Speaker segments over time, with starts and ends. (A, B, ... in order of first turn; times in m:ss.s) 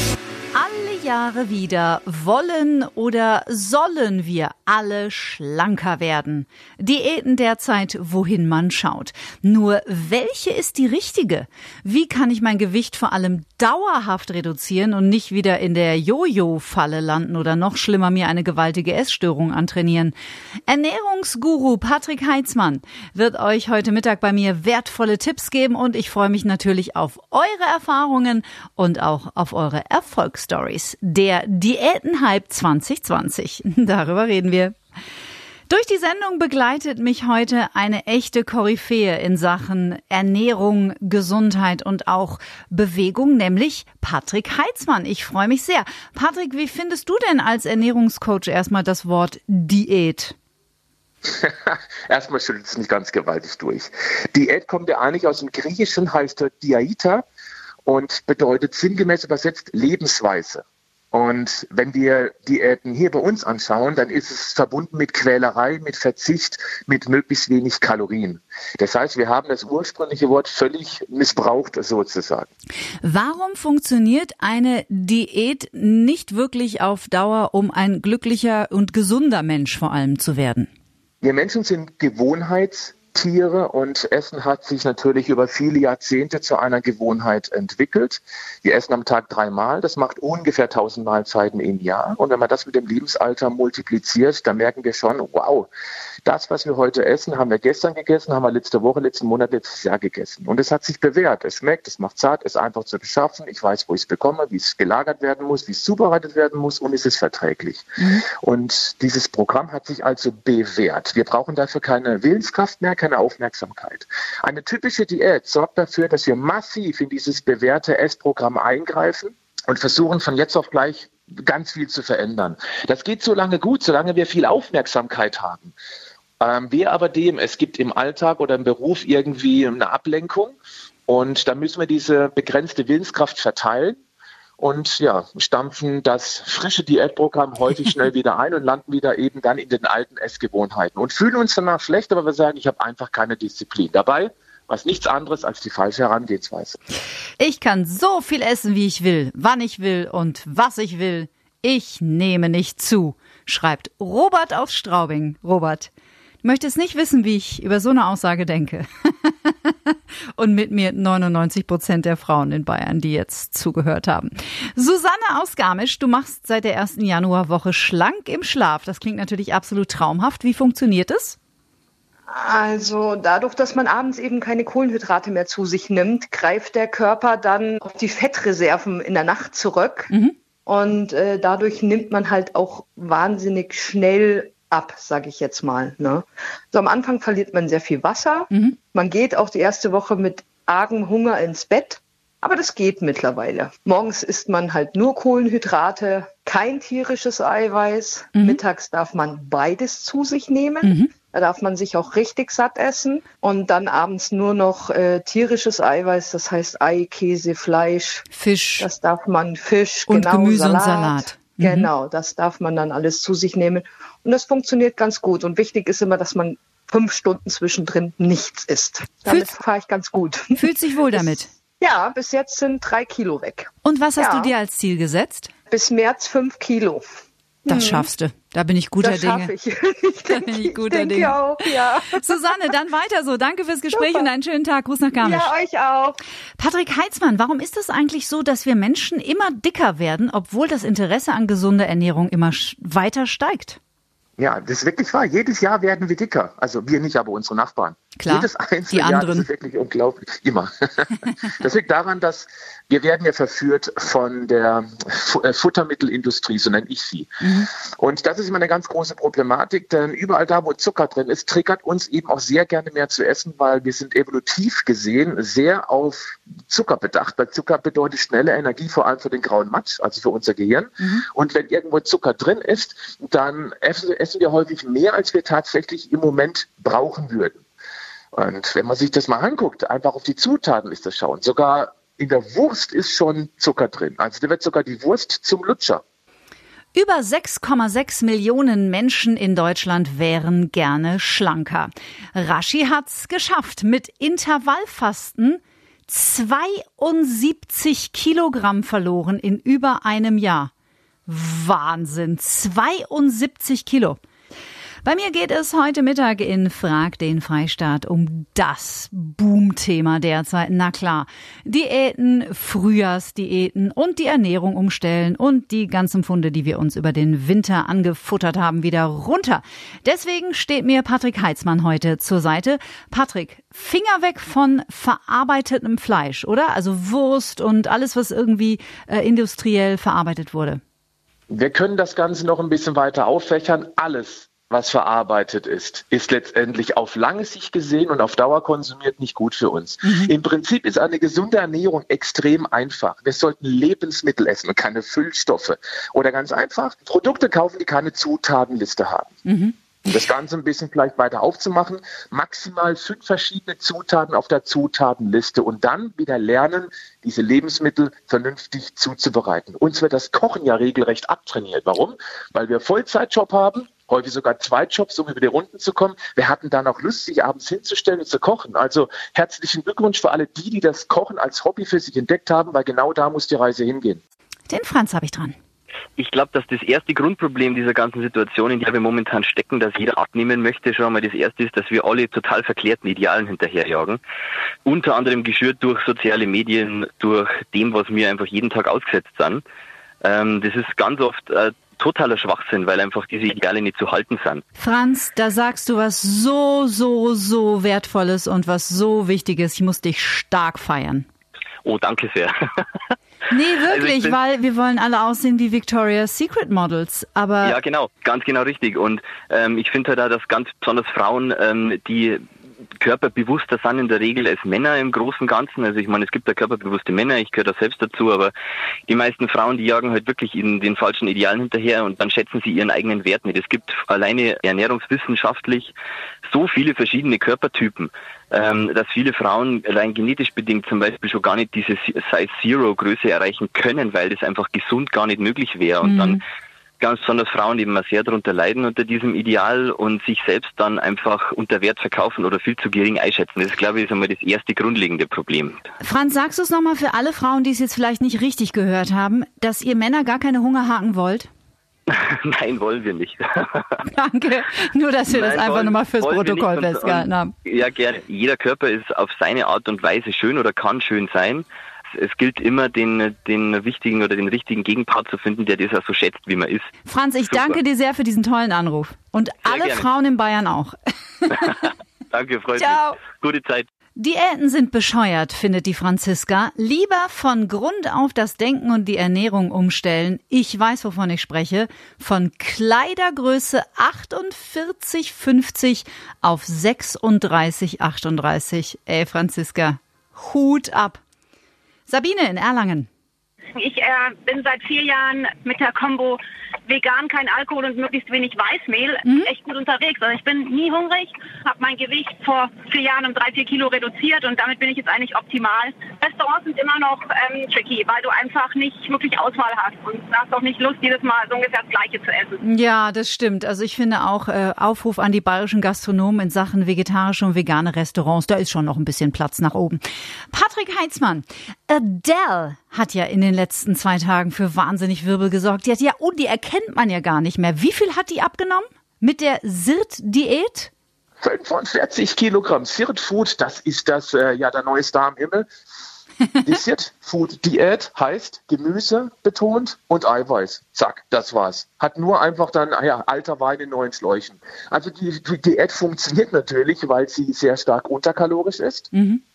0:00.5-0:20.1 A
0:20.7-0:34.8 A
0:35.7-0:50.4 A
0:51.2-0:57.2 B
0:57.8-1:12.5 B
1:13.0-1:20.7 A
1:21.2-1:35.7 B
1:36.2-2:05.7 B
1:48.0-1:48.2 A
2:06.4-2:14.0 B
2:14.6-2:26.8 B
2:27.4-2:35.9 A
2:36.4-2:51.4 A
2:52.3-3:00.1 C
3:00.6-3:28.2 C
3:18.3-3:18.6 A
3:20.8-3:21.1 A
3:28.3-3:28.9 A
3:28.8-3:44.5 C
3:30.1-3:31.9 A
3:39.3-3:39.5 A
3:40.6-3:41.5 A
3:43.8-3:45.5 A
3:45.7-3:47.0 C
3:47.6-3:48.1 C
3:47.7-3:49.5 A
3:49.0-3:52.4 C
3:50.3-3:51.6 A
3:52.2-3:55.5 A
3:53.9-3:54.3 C
3:55.2-3:56.2 C
3:56.6-4:03.8 A
4:04.4-4:37.6 B
4:08.2-4:09.5 A
4:17.4-4:17.7 A
4:38.3-4:46.0 B
4:46.9-5:00.7 A
5:01.2-5:04.2 A
5:05.0-5:30.8 A
5:31.5-5:49.4 B
5:49.4-5:49.8 A
5:50.0-6:14.2 B
6:14.7-6:15.5 A
6:16.2-6:24.2 D
6:24.8-6:29.6 D
6:30.2-6:34.6 D
6:34.8-6:41.3 A
6:41.8-6:42.5 D
6:43.5-6:47.8 A
6:43.9-6:44.4 D
6:47.6-6:52.4 D
6:53.0-6:58.5 D
6:59.1-7:05.9 D
7:06.5-7:16.4 D
7:16.0-7:16.4 A
7:17.0-7:25.9 D
7:26.0-7:31.5 A
7:32.1-7:34.0 D
7:34.0-7:37.5 A
7:35.3-7:46.9 D
7:47.0-7:51.7 A
7:47.5-7:47.8 D
7:49.6-7:50.0 D
7:51.6-7:53.9 D
7:52.8-7:53.2 A
7:54.2-8:11.2 A
8:12.1-8:13.1 A
8:13.7-8:32.6 E
8:19.2-8:19.5 A
8:32.6-8:50.9 A
8:51.4-8:55.7 B
8:56.6-9:09.1 B
9:09.1-9:09.4 A